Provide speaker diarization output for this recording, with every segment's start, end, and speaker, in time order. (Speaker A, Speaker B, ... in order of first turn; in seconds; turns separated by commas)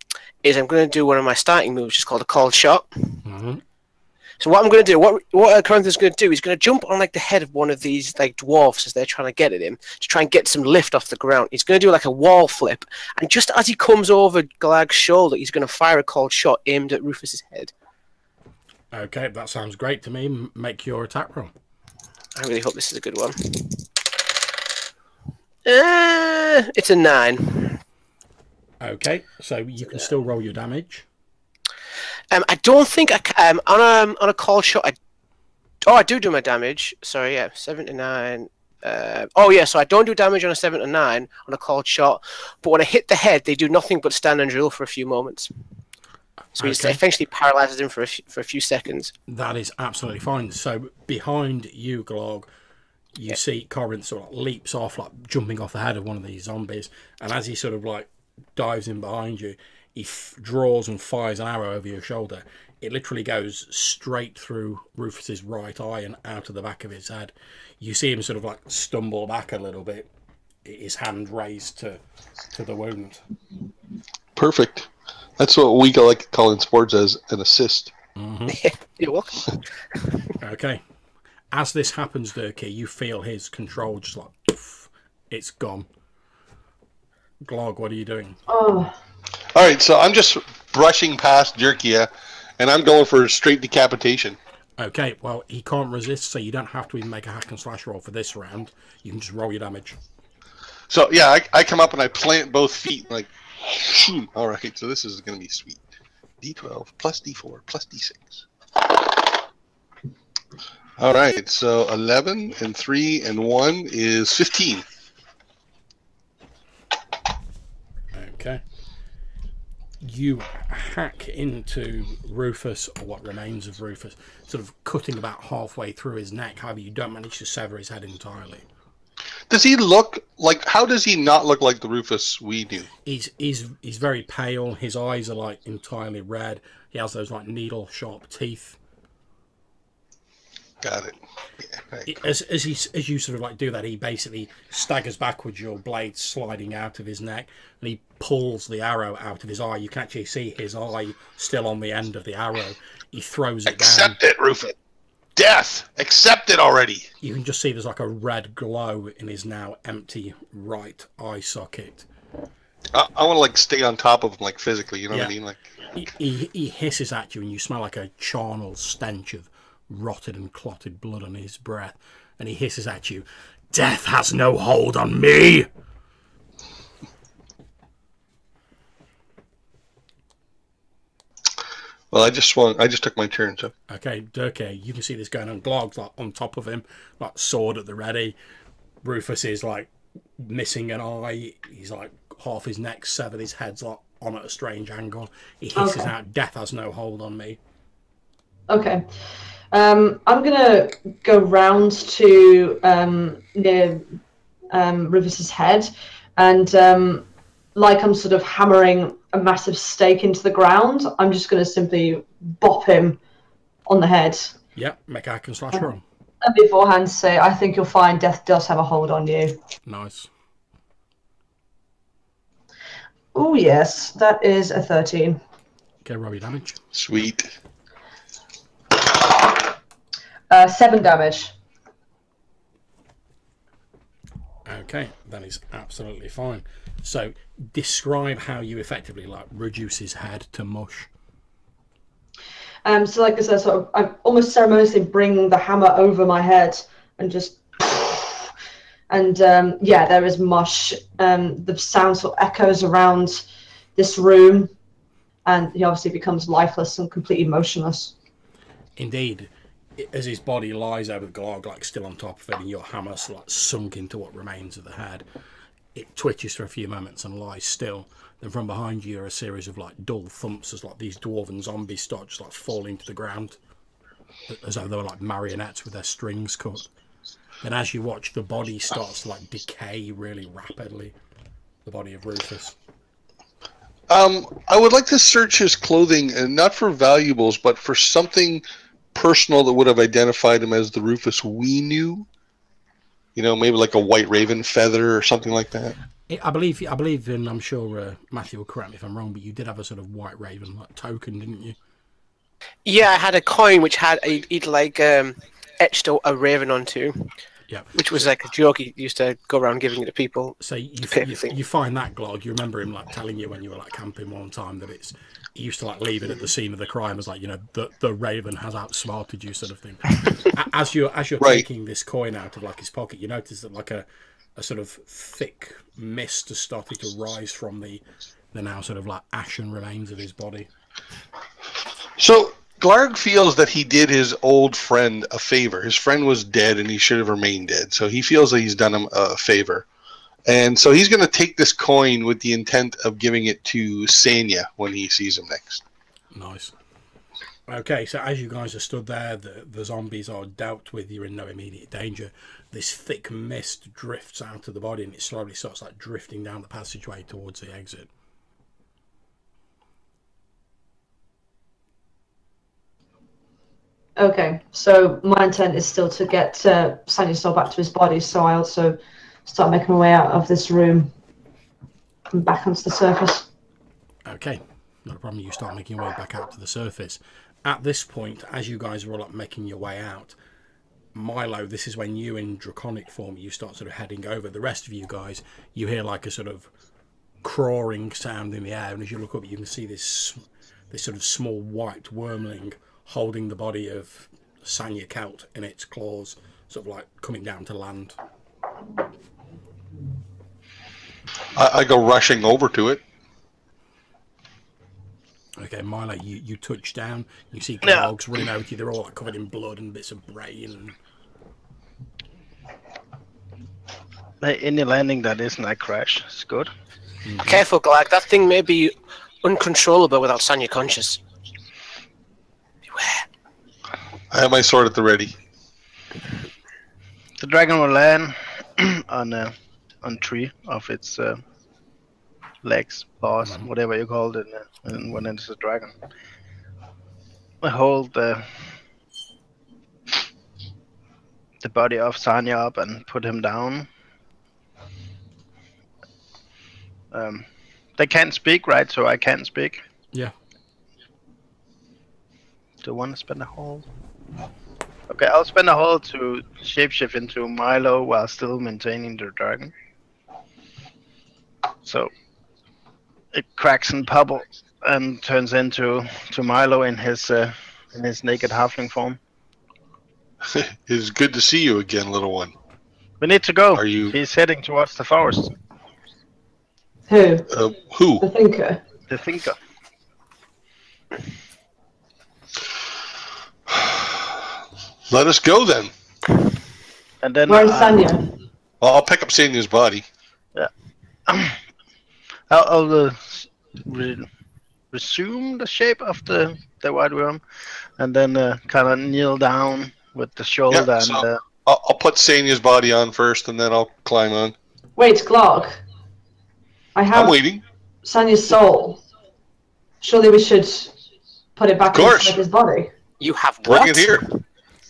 Speaker A: 0.4-3.2, Speaker B: 3.2-3.6, Speaker A: 4.4-17.7, Speaker B: 18.9-21.5, Speaker A: 22.3-23.9, Speaker A: 25.6-27.8, Speaker B: 28.8-31.1, Speaker A: 32.3-34.9, Speaker A: 35.8-45.5, Speaker B: 46.5-47.0, Speaker A: 46.6-49.1, Speaker B: 49.3-52.5, Speaker B: 53.1-70.1, Speaker B: 70.6-72.0, Speaker B: 72.5-73.2, Speaker C: 74.3-77.9, Speaker B: 78.2-78.6, Speaker A: 78.5-80.0, Speaker B: 80.4-80.8, Speaker B: 81.5-85.9, Speaker B: 87.4-88.4, Speaker D: 88.5-88.9, Speaker C: 89.5-94.4, Speaker B: 94.8-100.0, Speaker C: 100.9-105.8, Speaker C: 106.4-108.4, Speaker C: 111.0-114.8, Speaker B: 118.1-118.6, Speaker B: 120.0-128.7, Speaker C: 129.5-132.9, Speaker B: 133.1-138.8, Speaker C: 140.8-142.2, Speaker B: 142.1-154.2, Speaker C: 153.7-154.7, Speaker C: 155.3-157.1, Speaker B: 157.2-162.1, Speaker C: 162.9-165.6, Speaker B: 165.9-175.7, Speaker C: 182.1-183.7, Speaker B: 183.9-188.3, Speaker B: 189.0-197.6, Speaker D: 195.8-196.1, Speaker D: 198.7-199.1, Speaker D: 199.7-204.2, Speaker D: 204.7-213.2, Speaker D: 213.8-214.5, Speaker B: 214.8-216.0, Speaker D: 216.4-219.6, Speaker B: 219.8-220.3, Speaker D: 223.3-225.4, Speaker B: 226.0-226.8, Speaker C: 226.9-227.5, Speaker D: 230.5-231.5, Speaker B: 234.7-241.1, Speaker D: 242.8-248.5, Speaker D: 249.1-253.4, Speaker D: 253.9-254.7, Speaker D: 255.4-258.1, Speaker B: 259.0-265.2, Speaker B: 265.9-273.6, Speaker B: 274.5-276.9, Speaker B: 277.6-281.1, Speaker B: 281.8-282.8, Speaker C: 284.1-292.3, Speaker C: 293.4-295.9, Speaker B: 296.3-301.8, Speaker A: 302.8-307.3, Speaker B: 307.7-308.3, Speaker A: 307.9-310.6, Speaker B: 310.6-324.0, Speaker A: 311.1-311.5, Speaker B: 324.6-328.0, Speaker B: 328.5-330.7, Speaker C: 332.2-339.9, Speaker C: 340.5-345.8, Speaker B: 346.3-346.7, Speaker B: 347.7-358.1, Speaker D: 364.2-371.1, Speaker D: 372.3-373.5, Speaker B: 374.2-380.4, Speaker B: 381.1-386.7, Speaker B: 387.4-398.2, Speaker C: 401.5-403.0, Speaker B: 405.6-411.0, Speaker E: 407.8-408.1, Speaker E: 414.4-416.7, Speaker B: 417.2-417.6, Speaker A: 417.4-421.2, Speaker A: 422.9-423.2, Speaker C: 424.3-425.3, Speaker E: 427.4-431.4, Speaker E: 432.6-435.9, Speaker E: 437.6-438.7, Speaker E: 441.6-443.9, Speaker E: 447.1-447.4, Speaker E: 448.0-449.8, Speaker E: 452.8-453.8, Speaker E: 455.1-459.7, Speaker E: 461.8-462.1, Speaker E: 463.3-469.2, Speaker C: 470.4-472.5, Speaker E: 473.2-475.5, Speaker C: 473.8-474.1, Speaker D: 477.1-477.5, Speaker C: 477.5-478.2, Speaker D: 478.2-478.8, Speaker E: 479.1-479.6, Speaker C: 483.7-484.3, Speaker C: 485.1-485.9, Speaker E: 487.2-488.2, Speaker D: 487.5-488.3, Speaker C: 488.8-490.0, Speaker E: 491.2-491.6, Speaker E: 492.5-494.3, Speaker E: 494.9-497.4, Speaker E: 498.0-501.4, Speaker C: 500.7-504.5, Speaker D: 505.0-505.8, Speaker D: 506.9-507.4, Speaker C: 507.1-507.6, Speaker D: 508.0-509.0, Speaker D: 510.0-510.9, Speaker D: 511.6-512.9, Speaker C: 511.9-512.4, Speaker A: 513.2-514.3, Speaker C: 513.6-514.2